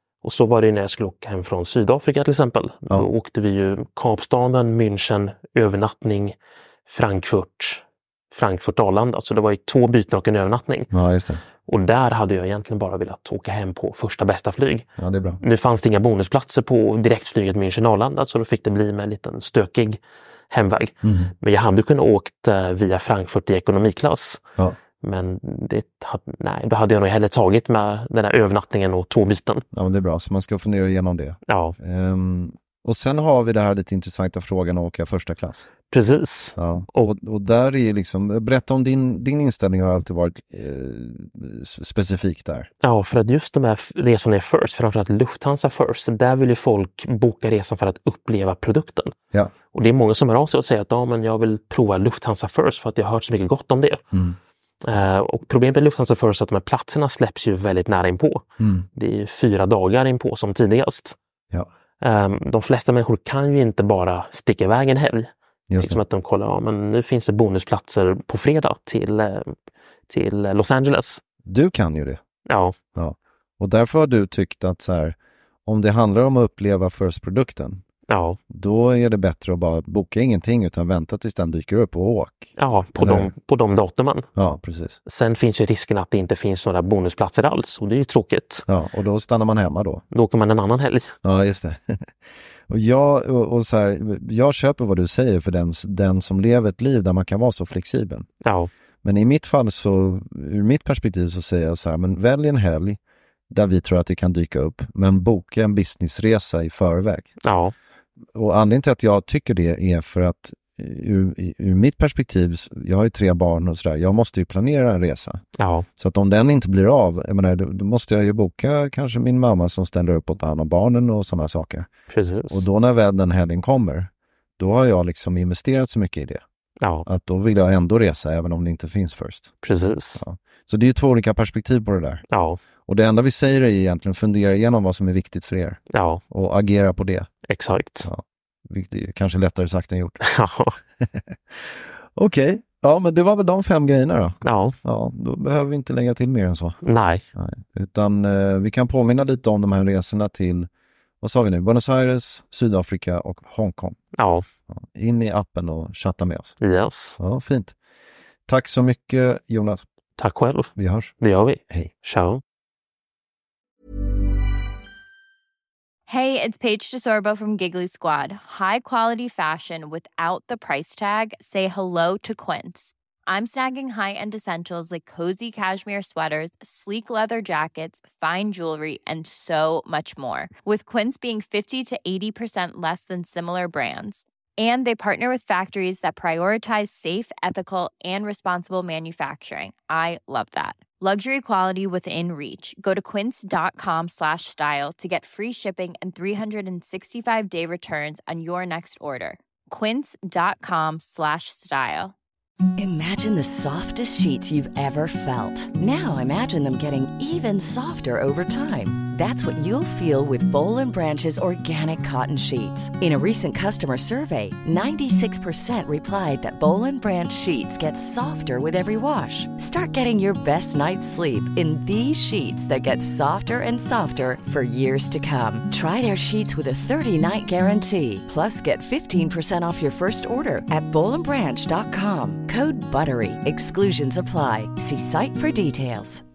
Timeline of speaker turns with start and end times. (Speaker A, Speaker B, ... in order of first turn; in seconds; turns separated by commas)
Speaker A: 0.2-6.3, Speaker A: 6.9-10.9, Speaker B: 10.9-11.4, Speaker A: 11.7-14.9, Speaker B: 15.0-15.4, Speaker A: 15.4-20.0, Speaker A: 20.5-24.4, Speaker B: 21.0-21.3, Speaker A: 25.0-29.6, Speaker B: 29.7-35.7, Speaker A: 31.5-31.8, Speaker A: 35.9-37.1, Speaker B: 36.6-42.7, Speaker A: 42.8-49.1, Speaker A: 49.7-54.0, Speaker B: 54.1-54.4, Speaker A: 54.8-61.2, Speaker B: 58.6-58.9, Speaker A: 62.0-69.5, Speaker B: 65.7-66.0, Speaker A: 70.1-71.2, Speaker B: 71.5-72.2, Speaker A: 72.5-72.8, Speaker B: 73.0-77.8, Speaker A: 78.1-78.4, Speaker B: 78.5-83.3, Speaker A: 82.6-84.3, Speaker B: 84.4-85.0, Speaker A: 85.1-88.7, Speaker B: 88.7-90.0, Speaker A: 90.1-91.2, Speaker B: 91.2-92.1, Speaker B: 92.7-98.3, Speaker A: 98.4-98.7, Speaker B: 99.0-103.0, Speaker B: 103.5-107.4, Speaker A: 107.5-107.7, Speaker B: 108.3-115.4, Speaker A: 115.6-115.9, Speaker B: 116.0-121.9, Speaker A: 122.1-122.6, Speaker B: 122.5-126.4, Speaker B: 127.0-129.5, Speaker A: 129.6-130.2, Speaker B: 130.2-132.2, Speaker A: 132.3-132.6, Speaker B: 132.9-137.3, Speaker A: 135.9-136.2, Speaker A: 137.5-138.1, Speaker B: 138.0-140.2, Speaker A: 140.2-140.8, Speaker B: 141.0-146.8, Speaker A: 144.4-144.8, Speaker A: 146.8-147.2, Speaker B: 147.3-150.7, Speaker B: 151.2-154.0, Speaker A: 154.2-154.4, Speaker B: 154.7-156.6, Speaker A: 156.6-157.2, Speaker B: 157.2-157.8, Speaker B: 158.5-159.8, Speaker A: 160.2-162.4, Speaker B: 160.8-161.1, Speaker C: 166.1-202.1, Speaker D: 202.8-236.2